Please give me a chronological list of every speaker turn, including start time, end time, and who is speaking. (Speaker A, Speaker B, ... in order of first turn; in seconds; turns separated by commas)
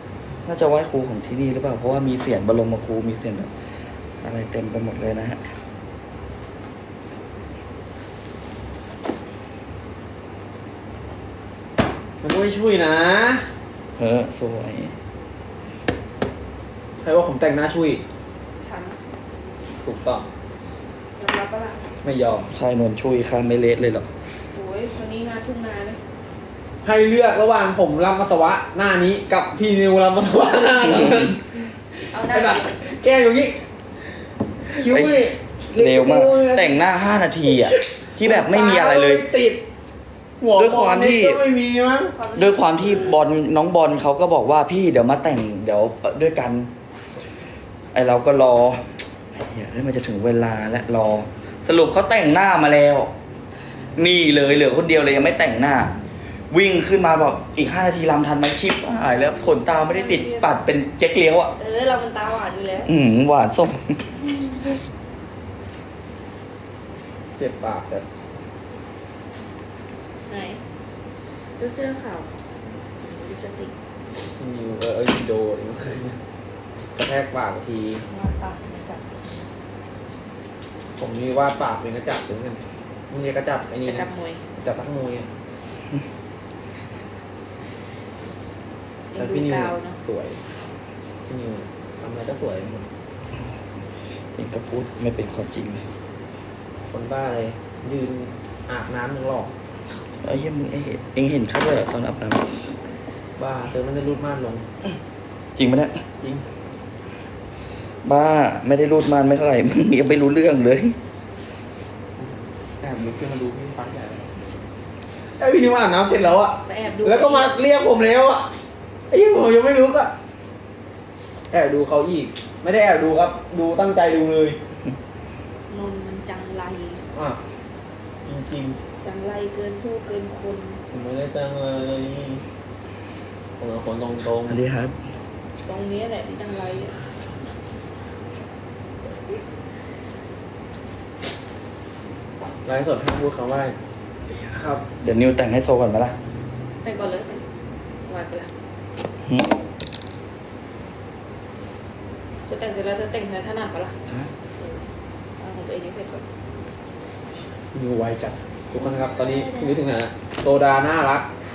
Speaker A: 0.5-5.4, Speaker B: 12.2-13.5, Speaker A: 14.0-14.9, Speaker B: 17.0-18.0, Speaker C: 18.6-19.0, Speaker B: 19.8-20.3, Speaker C: 21.2-21.8, Speaker B: 22.0-22.5, Speaker A: 22.5-24.1, Speaker C: 24.5-26.0, Speaker B: 26.8-33.6, Speaker C: 32.1-32.8, Speaker B: 34.7-36.8, Speaker A: 34.8-39.3, Speaker B: 37.5-39.6, Speaker B: 40.4-42.1, Speaker A: 40.5-41.4, Speaker C: 42.1-43.2, Speaker A: 42.4-46.7, Speaker A: 47.9-53.1, Speaker A: 54.0-56.0, Speaker A: 56.5-61.5, Speaker C: 59.9-60.6, Speaker C: 61.6-62.9, Speaker A: 62.9-64.1, Speaker B: 67.4-68.0, Speaker C: 70.3-70.6, Speaker C: 71.6-72.3, Speaker C: 73.0-73.7, Speaker B: 74.4-76.2, Speaker B: 77.0-78.1, Speaker C: 78.1-79.1, Speaker B: 81.0-85.3, Speaker C: 83.8-84.4, Speaker C: 89.1-90.0, Speaker B: 89.2-90.4, Speaker B: 91.3-92.9, Speaker A: 93.4-95.9, Speaker B: 96.9-99.5, Speaker A: 100.2-102.7, Speaker B: 103.4-104.7, Speaker A: 105.6-106.0, Speaker B: 106.2-106.5, Speaker A: 108.0-111.0, Speaker B: 112.2-114.4, Speaker B: 115.1-118.5, Speaker C: 116.6-117.6, Speaker B: 119.1-120.1, Speaker B: 121.5-124.6, Speaker C: 125.7-127.1, Speaker B: 127.1-127.4, Speaker B: 128.2-128.8, Speaker C: 129.0-130.8, Speaker B: 130.9-132.4, Speaker B: 133.6-134.6, Speaker A: 134.4-135.0, Speaker C: 135.6-137.0, Speaker B: 142.7-143.8, Speaker B: 144.3-144.8, Speaker A: 145.0-146.2, Speaker C: 146.8-147.4, Speaker C: 148.1-148.5, Speaker A: 149.2-149.5, Speaker C: 152.5-154.0, Speaker C: 154.6-154.9, Speaker C: 155.4-156.2, Speaker B: 157.7-161.3, Speaker C: 158.7-159.8